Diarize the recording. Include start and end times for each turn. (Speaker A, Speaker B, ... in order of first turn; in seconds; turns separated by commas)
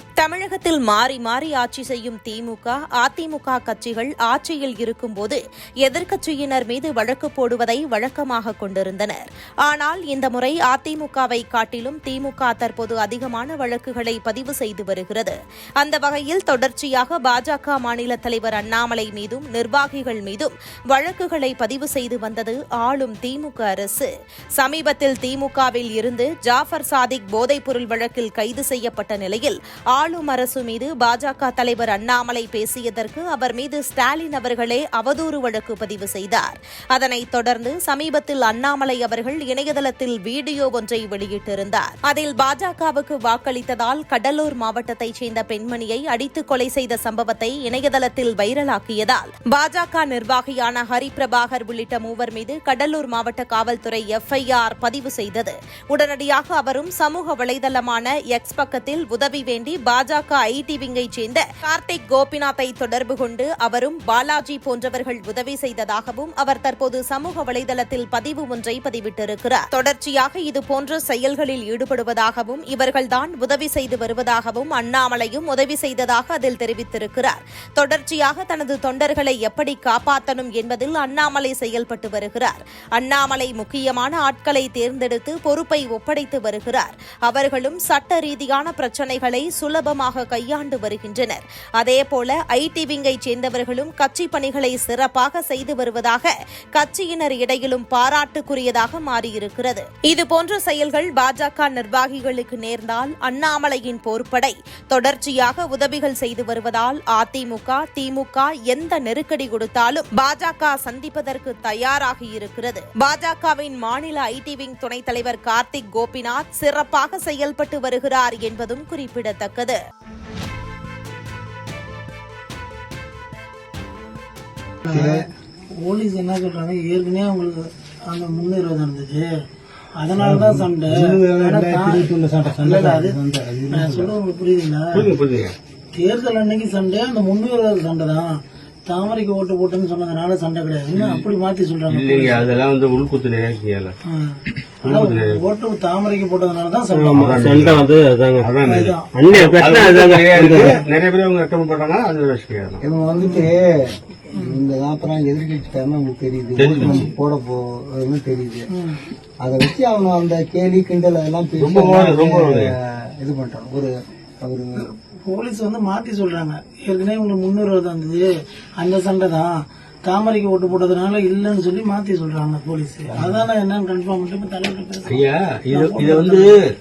Speaker A: 0.2-119.8, Speaker B: 124.8-125.3, Speaker C: 124.9-125.3, Speaker B: 125.8-129.3, Speaker B: 130.0-133.2, Speaker C: 130.1-134.1, Speaker B: 133.7-135.2, Speaker D: 134.9-135.5, Speaker B: 135.9-138.3, Speaker B: 138.9-142.5, Speaker D: 140.9-141.2, Speaker D: 141.9-143.9, Speaker B: 144.1-147.7, Speaker D: 144.8-145.4, Speaker E: 146.9-148.5, Speaker D: 147.1-147.8, Speaker D: 148.4-152.8, Speaker B: 148.6-149.3, Speaker E: 149.1-150.8, Speaker B: 150.5-150.8, Speaker C: 152.8-158.7, Speaker B: 153.2-153.5, Speaker B: 154.3-154.6, Speaker D: 156.6-157.1, Speaker B: 156.8-157.1, Speaker B: 158.7-159.0, Speaker C: 159.4-164.9, Speaker D: 161.6-162.7, Speaker B: 164.8-176.6, Speaker C: 173.1-173.4, Speaker D: 175.1-176.6